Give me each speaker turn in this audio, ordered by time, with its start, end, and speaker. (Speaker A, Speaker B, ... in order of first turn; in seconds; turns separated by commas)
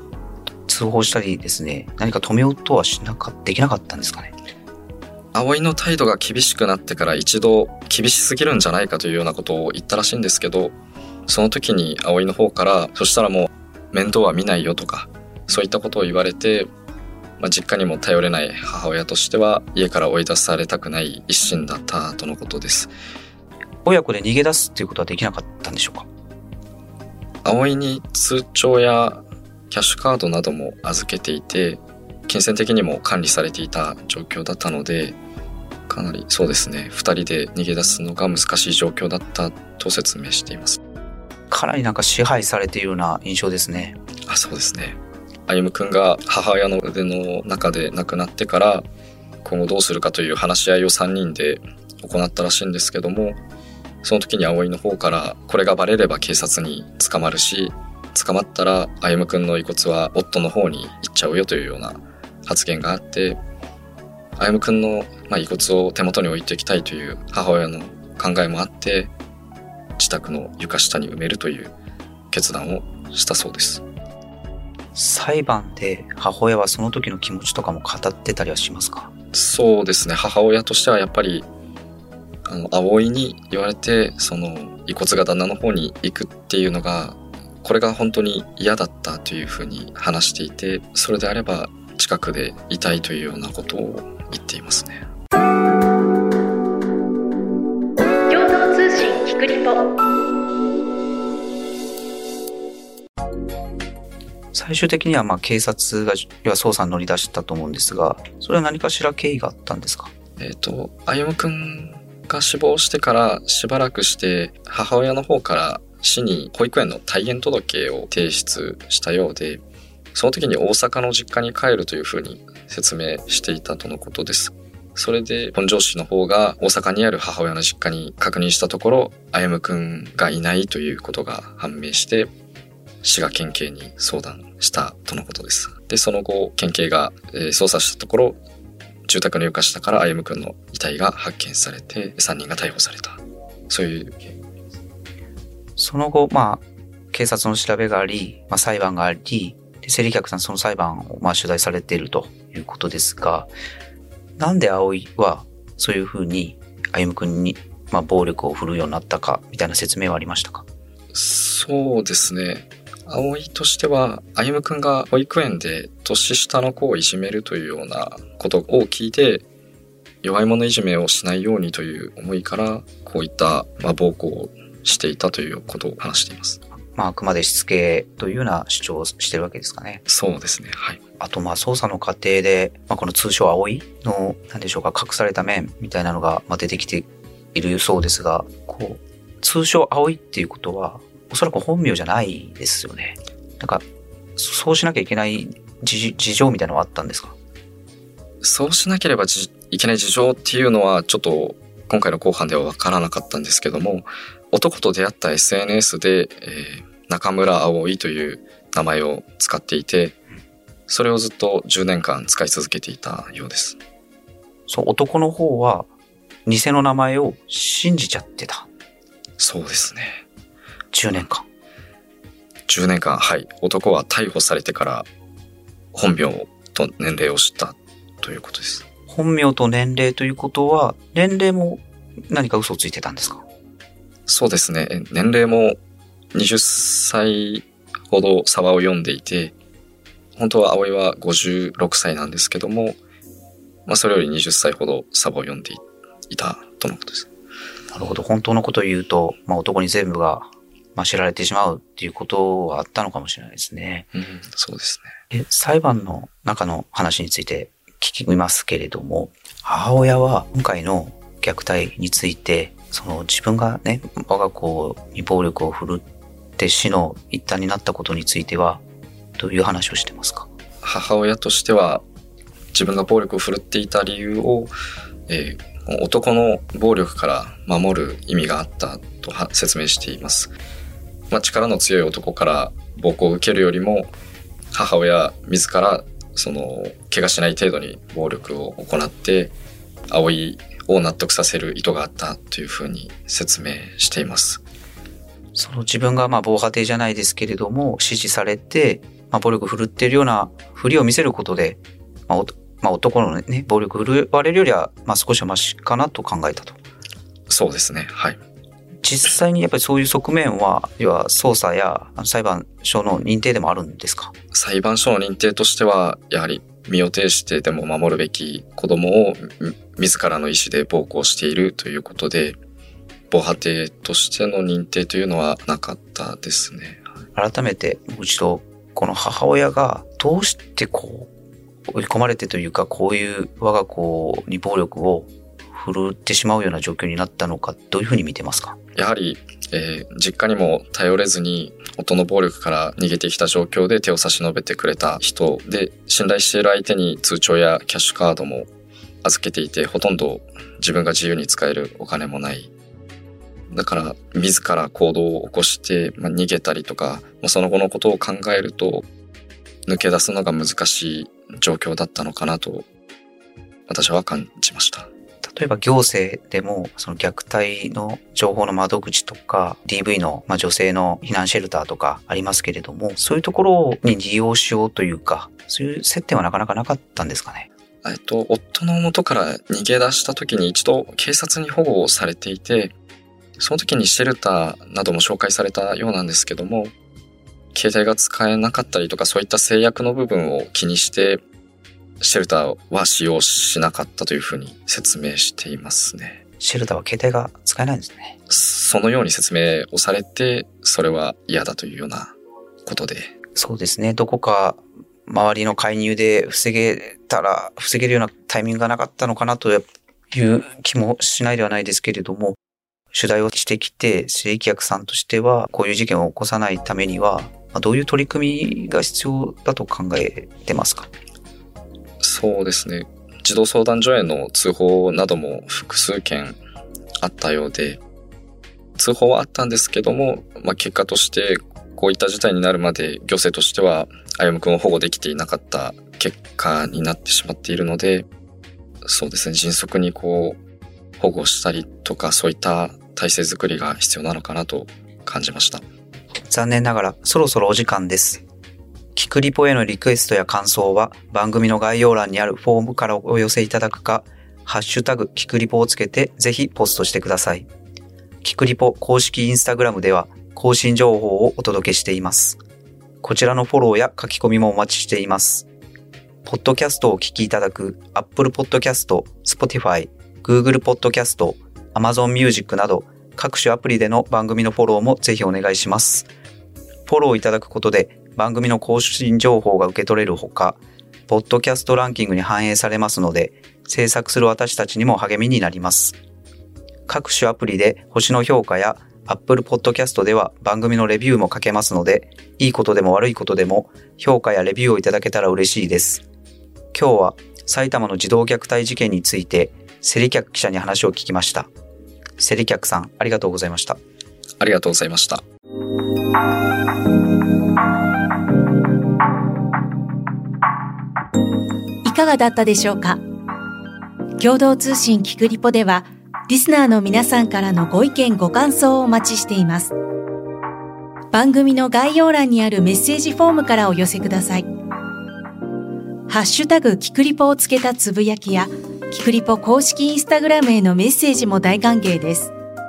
Speaker A: 0.7-4.3, Speaker B: 5.3-10.8, Speaker B: 11.3-16.7, Speaker B: 17.4-22.9, Speaker A: 23.9-26.1, Speaker B: 27.4-35.2, Speaker B: 35.9-40.8, Speaker A: 41.5-44.0, Speaker B: 44.3-48.9, Speaker B: 49.4-53.4, Speaker B: 54.0-63.4, Speaker B: 64.4-69.1, Speaker B: 70.0-71.7, Speaker B: 72.3-73.8, Speaker A: 74.9-79.1, Speaker B: 79.3-81.5, Speaker B: 82.5-95.0, Speaker C: 98.3-99.9, Speaker A: 104.5-110.1, Speaker B: 110.4-119.6, Speaker B: 120.1-132.3, Speaker B: 133.0-138.4, Speaker B: 139.1-144.4, Speaker A: 145.8-153.5, Speaker A: 154.4-160.7, Speaker B: 161.1-169.4, Speaker B: 170.2-176.6, Speaker A: 176.9-180.0, Speaker B: 180.1-181.0, Speaker A: 181.2-193.8, Speaker A: 194.4-197.4, Speaker B: 198.4-210.2, Speaker B: 210.9-213.8, Speaker A: 214.7-215.9, Speaker A: 216.5-218.7, Speaker B: 219.4-220.2, Speaker A: 220.9-221.5, Speaker B: 222.7-225.1, Speaker B: 225.9-228.8, Speaker A: 229.1-233.4, Speaker B: 234.3-235.8, Speaker B: 236.3-239.6, Speaker B: 240.4-243.0, Speaker B: 243.9-247.3, Speaker A: 247.9-254.1, Speaker B: 254.1-255.1, Speaker A: 255.3-266.1, Speaker A: 266.6-268.8, Speaker A: 269.4-270.5, Speaker B: 270.8-272.0, Speaker B: 272.7-274.7, Speaker B: 275.3-280.5, Speaker B: 281.3-284.1, Speaker B: 284.7-289.5, Speaker B: 290.1-294.6, Speaker A: 295.5-306.8, Speaker B: 307.5-308.4, Speaker A: 309.0-314.3, Speaker B: 314.5-322.6, Speaker B: 323.3-327.1, Speaker A: 327.4-331.3, Speaker A: 331.9-338.8, Speaker B: 339.0-348.7, Speaker B: 349.2-352.7, Speaker B: 353.7-359.1, Speaker B: 359.9-362.9, Speaker B: 363.9-365.1, Speaker A: 365.4-377.7, Speaker B: 378.0-382.9, Speaker B: 383.6-386.9, Speaker B: 387.7-391.4, Speaker B: 392.2-396.4, Speaker A: 396.6-398.4, Speaker B: 398.5-403.3, Speaker A: 403.6-412.6, Speaker A: 413.1-421.1, Speaker B: 422.2-426.6, Speaker B: 427.2-428.0, Speaker B: 429.0-438.3, Speaker B: 439.0-440.6, Speaker B: 441.2-445.8, Speaker A: 446.5-448.4, Speaker A: 449.1-457.7, Speaker A: 458.4-462.6, Speaker A: 463.2-465.7, Speaker A: 466.4-476.3, Speaker A: 477.1-486.2, Speaker A: 487.1-496.2, Speaker A: 496.9-501.7, Speaker A: 502.4-504.0, Speaker B: 504.6-505.4, Speaker C: 512.0-513.2, Speaker C: 514.4-519.9, Speaker C: 521.3-524.7, Speaker C: 526.3-532.5